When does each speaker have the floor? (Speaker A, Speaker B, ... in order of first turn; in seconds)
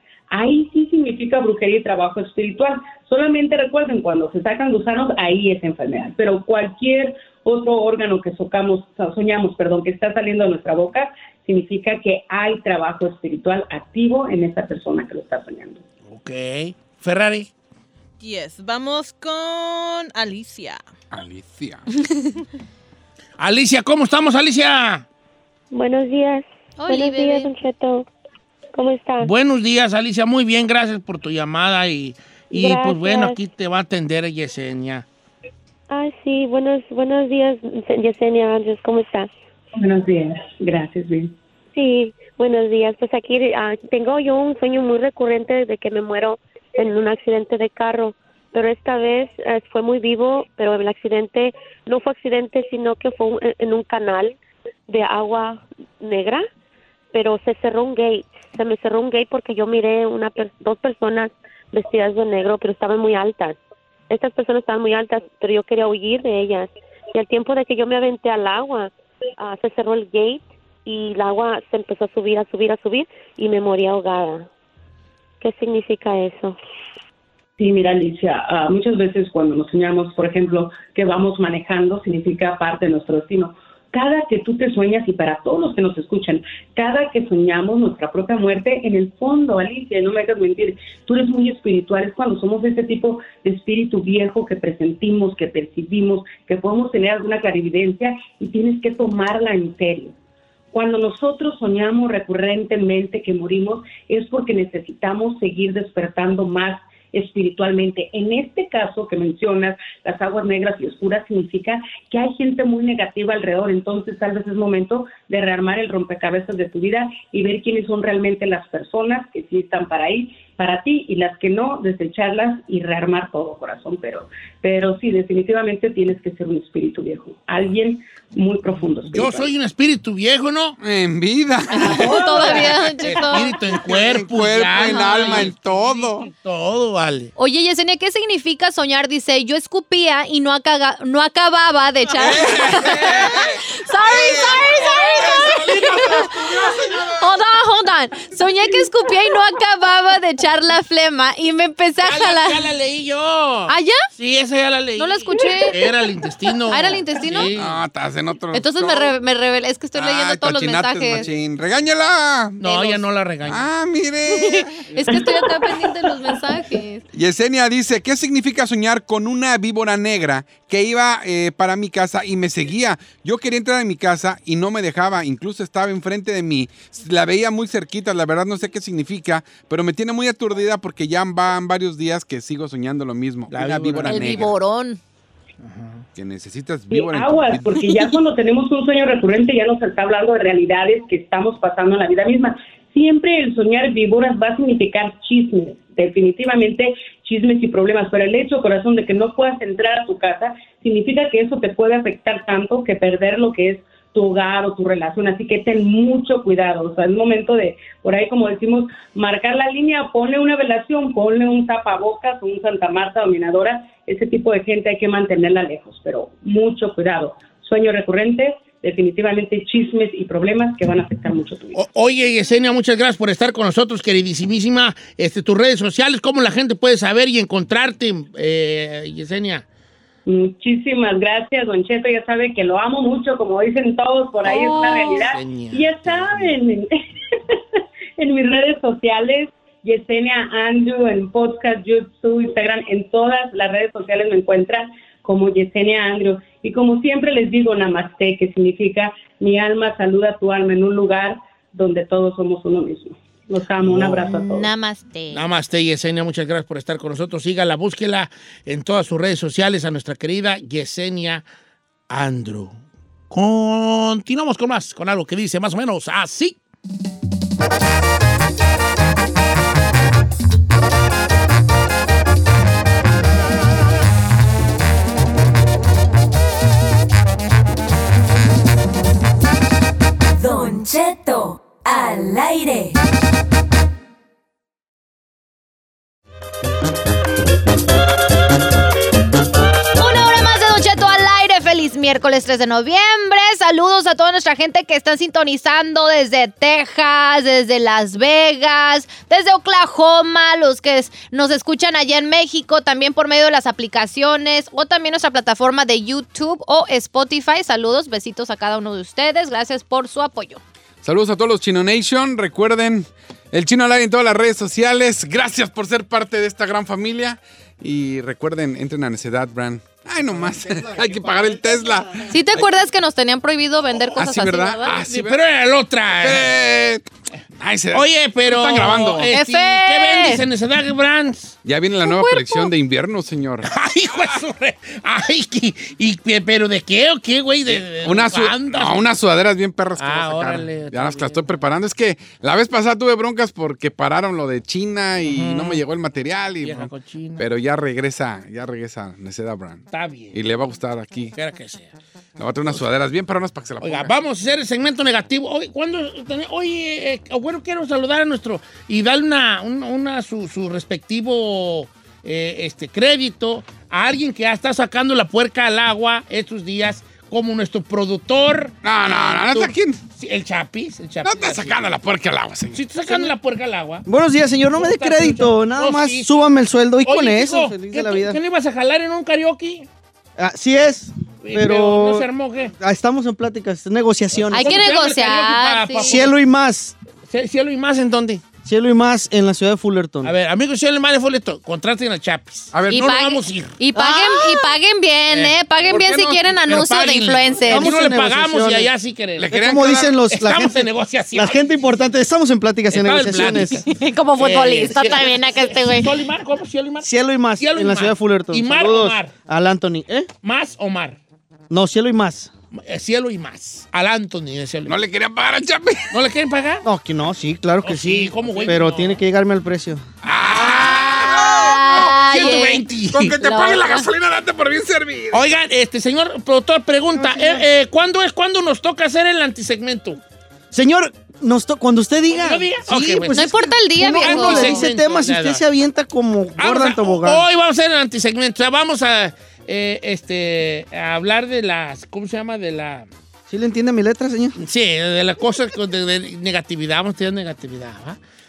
Speaker A: 0.3-15.8, 39.8-41.4, 77.6-100.2, 100.7-129.5, 132.1-132.5, 186.9-221.8, 230.3-236.9, 237.5-254.7
Speaker B: 16.1-17.5, 23.4-25.1, 29.2-35.1, 128.7-130.8, 131.9-137.3, 142.2-143.2, 152.0-157.8, 162.6-163.7, 183.5-184.5, 185.6-186.1, 221.7-229.7, 235.2-236.6, 253.8-254.4, 255.3-261.4, 262.1-266.6, 324.0-324.3, 324.9-326.5, 327.9-331.6, 333.6-339.1, 340.0-341.5, 345.2-345.8, 346.6-347.5, 349.9-350.4, 351.4-351.9, 353.8-371.8, 372.7-374.1, 374.8-376.5, 377.0-379.9, 381.4-382.7, 384.3-386.3, 387.3-388.4, 390.2-394.7, 396.7-399.6, 400.3-401.6, 402.9-403.9, 404.4-409.3, 410.4-411.2, 412.7-415.0, 416.1-416.9, 417.8-419.2, 421.9-423.4, 425.3-430.2, 432.3-435.6, 436.6-443.1, 444.6-448.2
Speaker C: 18.2-20.8
Speaker D: 21.1-21.9, 130.8-136.3, 142.2-147.3, 157.6-159.1, 159.9-162.6, 163.5-165.3, 167.1-184.6, 186.2-187.9, 311.0-322.7, 324.2-325.4, 326.2-327.1, 327.6-329.3, 331.6-334.4, 337.7-351.4, 352.4-354.1, 368.8-370.0, 371.2-373.3, 392.7-393.1, 395.9-396.4, 399.4-400.1, 414.9-416.1, 420.2-425.5
Speaker E: 25.7-28.1, 28.8-29.3, 32.5-33.4, 35.9-39.3, 41.8-54.4, 54.9-56.5, 57.1-74.5, 75.4-76.6
Speaker F: 26.8-27.5, 131.7-133.6, 134.8-135.5, 137.4-152.7, 153.7-154.0, 155.0-155.9, 156.7-157.5, 158.5-161.3, 162.6-163.0, 164.4-167.0, 184.1-185.0, 234.4-235.2, 254.3-255.4, 289.9-310.6, 322.3-324.9, 329.3-330.4, 332.0-332.7, 384.5-386.1, 392.9-397.9, 403.9-406.2, 420.8-422.9, 423.4-424.1, 433.3-434.9
Speaker G: 280.4-283.0
Speaker H: 374.1-378.4, 380.4-384.9, 386.0-387.0, 388.6-390.3, 397.7-398.9, 399.5-403.9, 407.0-410.3, 411.7-412.5, 416.8-420.0, 427.2-427.6, 430.7-437.5, 443.5-444.6